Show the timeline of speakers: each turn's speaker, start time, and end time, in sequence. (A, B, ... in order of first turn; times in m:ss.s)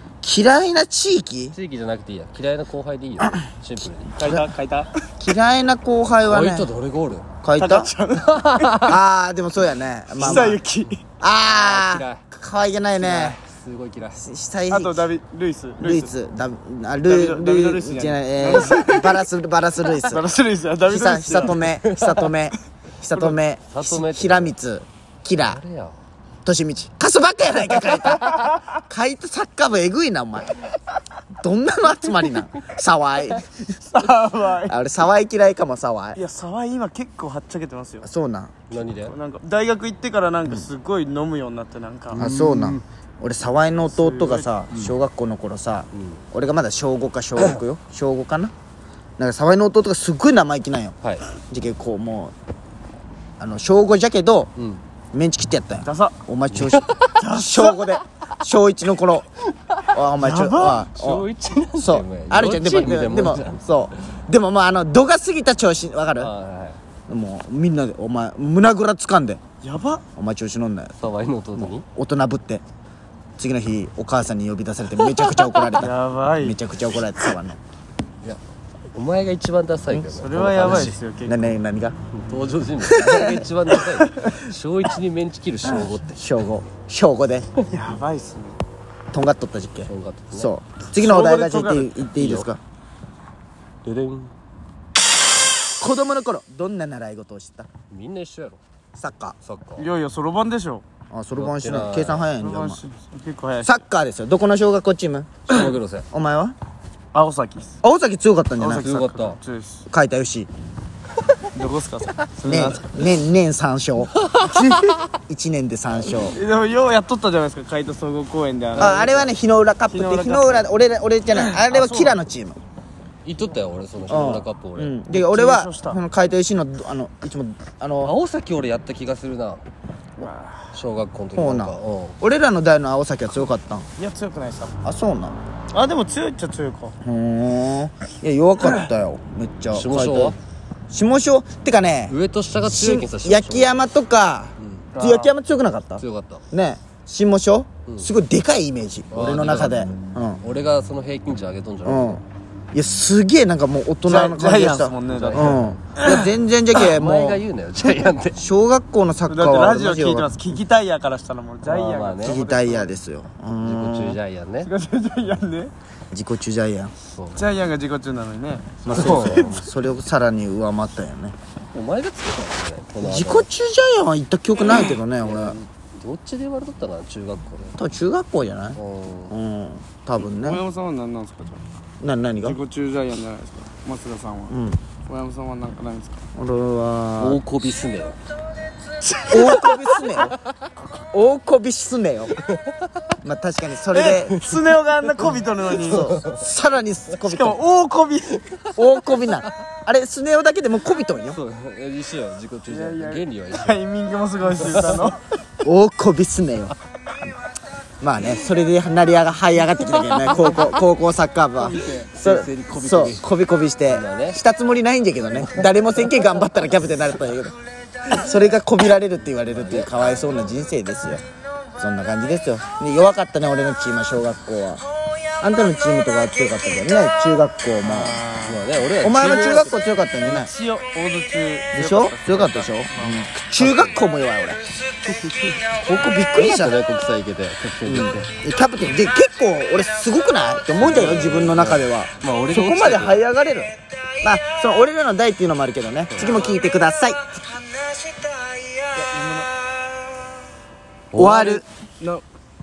0:00.2-0:01.6 A
0:01.5-0:04.1 B
0:04.1-0:05.1 C
0:04.2-0:04.5 A
0:05.2-0:06.7 A
0:06.3-0:07.2 B
0:07.4-0:07.9 A
0:07.6-0:08.8 C
0:08.3-0:09.0 B
0:08.8-0:10.6 A
0:10.2-0:11.0 C
0:10.2-0:10.6 B
0:11.2-0:13.4 A
0:11.4-0:12.2 B
0:12.9-0:14.3 B
0:14.2-0:15.1 A
0:14.7-0:16.1 C
0:15.8-0:20.2 A
0:17.0-0:19.2 C
0:20.0-0:22.3 C
0:20.9-0:25.6 A
0:23.7-0:24.6 B
0:25.4-0:26.0 B
0:26.4-0:30.6 A
0:28.2-0:28.6 C
0:31.4-0:33.6 A
0:33.8-0:34.8 C
0:34.7-0:36.2 A
0:36.2-0:38.1 C
0:38.0-0:38.6 A
0:38.7-0:39.2 B
0:38.9-0:42.3 C
0:42.1-0:42.8 B
0:42.2-0:48.5 A
0:43.9-0:44.5 C
0:45.9-0:46.2 B
0:49.2-0:52.3 A
0:53.4-0:54.5 A
0:54.6-0:54.8 B
0:55.1-0:59.3 A
0:55.8-0:56.2 C
0:56.5-0:57.1 B
0:57.2-0:58.0 C
0:59.9-1:06.3 A
1:00.2-1:01.2 C
1:01.0-1:04.0 B
1:06.2-1:06.8 B
1:07.1-1:09.4 A
1:09.6-1:10.0 C
1:10.2-1:11.0 A
1:11.0-1:11.8 B
1:11.6-1:12.6 A
1:13.4-1:17.6 A
1:15.7-1:16.6 C
1:18.9-1:21.0 B
1:20.1-1:21.6 C
1:21.3-1:22.0 A
1:22.1-1:26.4 B
1:22.9-1:23.4 A
1:23.8-1:24.5 C
1:25.8-1:27.5 A
1:27.6-1:28.6 C
1:29.1-1:32.6 A
1:29.9-1:30.5 B
1:30.9-1:32.0 C
1:32.2-1:32.5 B
1:33.8-1:34.3 B
1:35.8-1:37.7 A
1:37.9-1:38.6 B
1:39.0-1:39.4 A
1:39.4-1:39.9 B
1:39.8-1:40.8 C
1:41.1-1:42.8 A
1:41.3-1:42.3 B
1:42.4-1:43.8 C
1:43.6-1:45.5 A
1:45.5-1:46.1 B
1:46.1-1:46.6 A
1:47.1-1:47.8 C
1:47.8-1:48.9 A
1:48.6-1:49.9 C
1:48.8-1:49.4 B
1:49.9-1:50.5 A
1:51.5-1:53.0 C
1:52.4-1:54.2 A
1:54.4-1:55.0 C
1:55.3-1:56.4 A
1:56.1-1:59.3 C
1:58.8-2:02.6 A
1:59.9-2:00.7 C
2:01.3-2:02.2 C
2:03.2-2:05.0 B
2:04.1-2:08.1 A
2:05.1-2:06.0 C
2:08.0-2:09.6 B
2:10.2-2:10.8 C
2:10.7-2:12.2 B
2:11.4-2:13.9 A
2:14.0-2:14.7 C
2:14.8-2:15.4 A
2:15.7-2:17.0 C
2:17.0-2:20.4 A
2:19.7-2:20.4 B
2:20.9-2:30.4 A
2:22.1-2:23.8 B
2:24.6-2:24.9 B
2:24.9-2:25.4 C
2:26.0-2:26.4 B
2:29.1-2:32.2 B
2:31.8-2:32.2 A
2:32.7-2:37.4 A
2:34.0-2:36.3 C
2:35.1-2:35.8 B
2:36.8-2:38.4 B
2:38.4-2:40.3 A
2:39.3-2:43.0 C
2:41.6-2:42.4 B
2:42.2-2:44.2 A
2:43.6-2:44.7 B
2:44.6-2:45.7 C
2:46.1-2:46.9 A
2:47.1-2:47.4 B
2:47.4-2:49.6 C
2:48.9-2:51.4 A
2:48.9-2:49.7 B
2:51.7-2:53.5 B
2:53.0-2:55.6 A
2:55.2-2:57.8 B
2:57.8-2:58.8 A
2:58.8-2:59.4 B
2:59.3-3:00.6 A
3:00.2-3:01.6 C
3:02.0-3:02.6 A
3:02.4-3:06.2 C
3:04.5-3:04.8 A
3:06.4-3:07.4 A
3:07.2-3:08.2 B
3:09.0-3:10.2 C
3:09.3-3:10.4 A
3:11.1-3:12.4 A
3:12.5-3:12.8 B
3:13.2-3:14.4 A
3:13.9-3:16.1 C
3:15.8-3:16.5 B
3:15.8-3:17.6 A
3:17.2-3:18.5 C
3:18.8-3:21.4 A
3:21.2-3:23.8 B
3:22.7-3:25.2 C
3:24.6-3:25.1 B
3:25.6-3:26.8 A
3:28.0-3:41.2 A
3:30.2-3:30.6 B
3:31.6-3:32.1 C
3:32.1-3:33.3 B
3:33.9-3:34.4 B
3:39.5-3:40.5 B
3:41.8-3:44.8 A
3:45.4-3:48.2 A
3:47.8-3:49.7 C
3:48.4-3:49.8 B
3:49.0-3:50.5 A
3:50.2-3:53.3 C
3:51.7-3:54.6 A
3:53.6-3:54.0 B
3:55.1-3:55.6 B
3:55.7-3:56.8 A
3:56.3-3:58.3 B
3:57.9-4:07.2 A
4:00.8-4:03.2 B
4:06.1-4:06.6 C
4:08.9-4:09.5 C
4:11.1-4:12.2 C
4:11.2-4:11.6 A